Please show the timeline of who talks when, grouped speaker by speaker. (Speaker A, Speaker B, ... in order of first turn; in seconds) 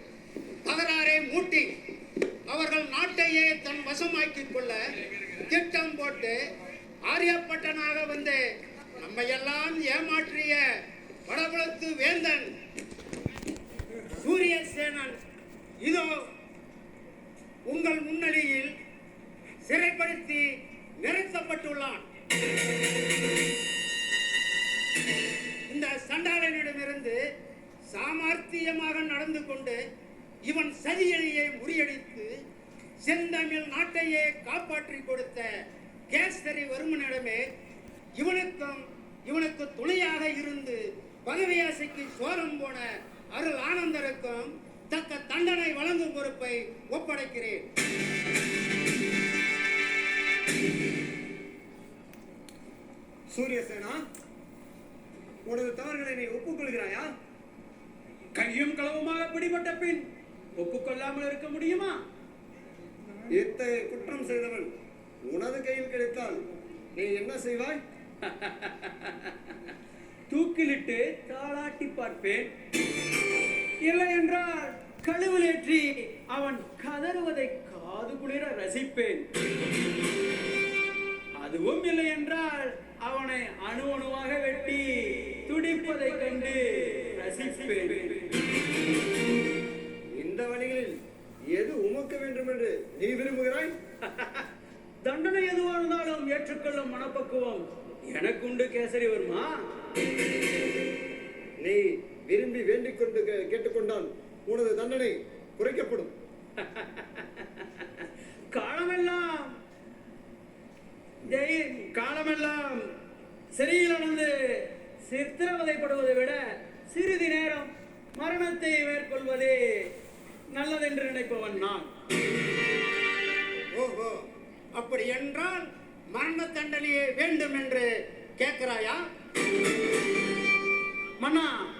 Speaker A: 0.7-1.7, 2.5-4.8, 5.4-6.4, 7.1-8.4, 9.0-10.6, 11.3-12.5, 14.1-15.2, 15.8-16.1, 17.7-18.7, 19.6-20.5, 21.0-22.0, 25.7-27.2, 27.9-29.8, 30.4-32.3, 33.0-35.5, 36.1-37.4, 38.2-47.6, 123.7-124.2, 124.7-129.0
Speaker B: 53.3-54.0, 55.5-57.1, 63.3-64.7, 65.2-66.4, 66.9-67.8, 90.1-90.9, 91.5-93.7, 101.6-106.1
Speaker C: 58.3-60.0, 60.6-62.0, 68.2-69.3, 70.3-72.5, 73.8-79.2, 81.4-88.3, 94.1-94.4, 95.0-99.5, 106.6-107.8, 108.5-109.5, 111.2-112.8, 113.5-119.9, 120.5-121.9, 131.2-131.6